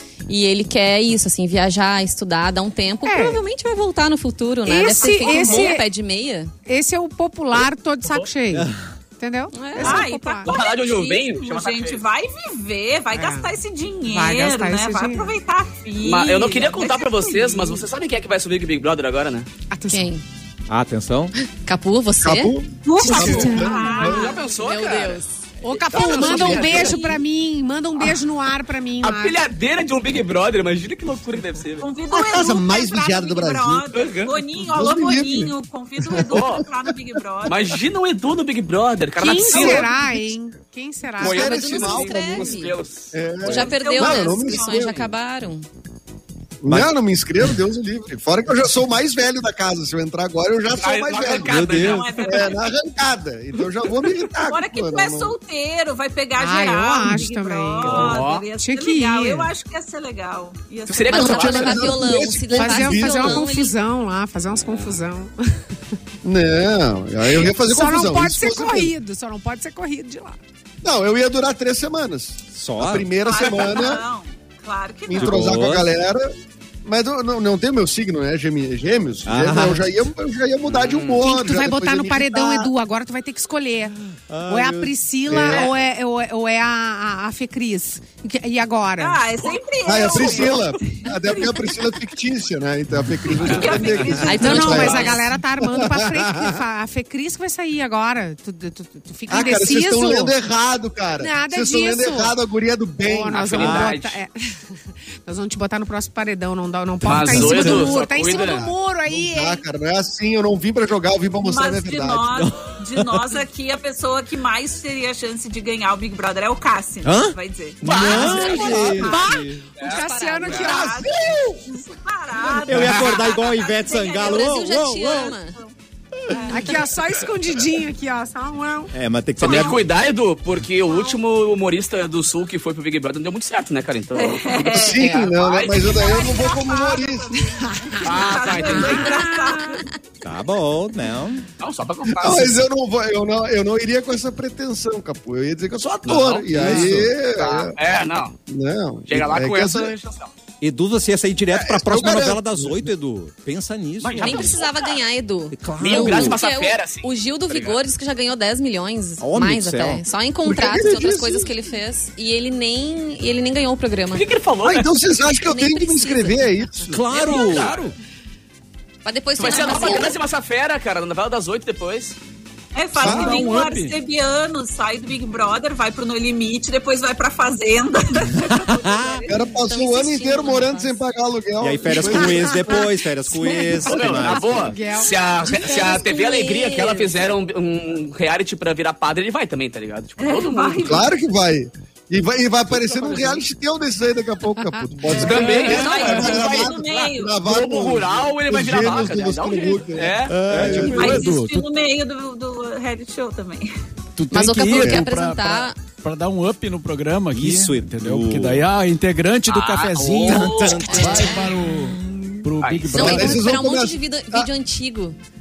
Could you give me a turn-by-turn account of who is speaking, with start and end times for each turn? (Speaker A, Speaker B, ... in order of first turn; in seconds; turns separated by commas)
Speaker A: 0.3-6.5, Speaker B: 3.0-3.4, Speaker B: 4.7-5.9, Speaker C: 4.7-5.8, Speaker B: 6.7-10.5, Speaker D: 8.5-8.8, Speaker A: 9.5-10.1, Speaker C: 9.8-17.9, Speaker E: 10.4-12.0, Speaker B: 13.1-13.5, Speaker B: 14.1-15.3, Speaker E: 16.1-19.5, Speaker B: 19.7-20.1, Speaker A: 19.9-20.2, Speaker D: 20.7-21.3, Speaker A: 21.4-22.5, Speaker F: 22.2-24.4, Speaker C: 22.9-24.4, Speaker A: 23.1-25.4, Speaker B: 23.1-23.9, Speaker E: 24.0-27.2, Speaker B: 25.6-29.4, Speaker A: 26.1-27.1, Speaker E: 29.0-31.9, Speaker C: 31.8-37.8, Speaker F: 32.1-33.9, Speaker E: 33.9-34.4, Speaker F: 34.6-36.6, Speaker E: 36.3-36.6, Speaker E: 37.5-40.3, Speaker B: 39.2-41.5, Speaker F: 39.5-39.9, Speaker E: 41.2-43.1, Speaker A: 41.2-42.7, Speaker F: 41.2-45.1, Speaker A: 43.4-45.7, Speaker C: 43.5-44.9, Speaker F: 46.6-55.3, Speaker E: 50.8-52.4, Speaker D: 51.5-52.1, Speaker C: 51.8-52.6, Speaker C: 54.4-61.9, Speaker B: 56.4-59.5, Speaker E: 57.8-58.5, Speaker E: 60.9-62.0, Speaker A: 61.1-63.8, Speaker F: 61.2-63.5, Speaker B: 62.2-65.3, Speaker F: 66.2-68.9, Speaker B: 67.4-70.4, Speaker F: 70.8-74.0, Speaker D: 72.5-73.1, Speaker C: 73.2-75.4, Speaker F: 75.1-76.3, Speaker D: 75.2-75.9, Speaker F: 76.8-82.7, Speaker D: 79.3-79.9, Speaker E: 80.7-81.2, Speaker B: 81.2-84.0, Speaker D: 84.3-84.9, Speaker B: 84.5-89.2, Speaker F: 85.3-85.6, Speaker C: 89.0-91.8, Speaker F: 89.8-96.6, Speaker E: 90.1-90.6, Speaker C: 93.3-95.2, Speaker E: 93.4-94.2, Speaker A: 94.2-95.2, Speaker B: 94.3-100.3, Speaker F: 99.3-103.5, Speaker B: 101.2-102.4, Speaker B: 103.0-109.6, Speaker E: 103.3-104.2, Speaker E: 107.0-108.7, Speaker D: 107.2-108.0, Speaker F: 109.1-112.4, Speaker C: 111.4-125.8, Speaker D: 112.4-113.1, Speaker D: 117.0-119.7, Speaker E: 117.8-119.1, Speaker B: 118.6-121.1, Speaker E: 119.8-120.8, Speaker F: 120.7-121.6, Speaker D: 122.7-125.3, Speaker E: 122.7-123.2, Speaker A: 124.2-125.6, Speaker C: 126.3-126.9, Speaker B: 126.5-128.9, Speaker D: 128.9-129.8, Speaker E: 129.4-135.1, Speaker C: 129.4-129.8, Speaker C: 134.2-139.9, Speaker F: 134.6-137.3, Speaker B: 137.6-139.8, Speaker E: 138.0-139.2, Speaker D: 140.2-141.5, Speaker E: 141.6-142.6, Speaker F: 142.1-147.8, Speaker E: 146.0-148.3, Speaker D: 146.5-147.2, Speaker F: 148.5-149.9, Speaker E: 149.1-150.3, Speaker D: 150.6-154.6, Speaker F: 151.5-152.9, Speaker E: 154.0-155.0, Speaker A: 154.2-164.3, Speaker D: 155.5-156.4, Speaker E: 155.8-157.1, Speaker D: 159.2-160.0, Speaker F: 160.4-161.5, Speaker E: 164.1-164.9, Speaker F: 164.6-167.1, Speaker A: 165.4-166.5, Speaker D: 166.9-167.9, Speaker E: 167.1-167.9, Speaker A: 169.1-170.2, Speaker E: 169.4-172.2, Speaker C: 169.6-169.9, Speaker C: 172.8-179.3, Speaker G: 173.0-173.9, Speaker F: 173.0-173.5, Speaker D: 178.6-179.2, Speaker F: 179.3-182.7, Speaker A: 179.5-181.0, Speaker D: 181.6-184.8, Speaker B: 182.0-185.9, Speaker E: 183.9-191.0, Speaker A: 185.5-187.1, Speaker C: 190.2-191.1, Speaker F: 190.8-201.3, Speaker E: 192.7-193.4, Speaker B: 194.6-196.2, Speaker E: 195.1-201.3, Speaker C: 195.6-197.4, Speaker D: 198.8-199.2, Speaker D: 200.3-201.3, Speaker G: 200.5-201.7, Speaker C: 200.9-203.7, Speaker G: 204.2-213.5, Speaker A: 204.3-205.8, Speaker F: 204.8-205.1, Speaker D: 207.3-208.6, Speaker E: 209.5-211.0, Speaker D: 210.2-211.4, Speaker A: 210.8-215.2, Speaker E: 212.6-213.2, Speaker F: 212.9-214.5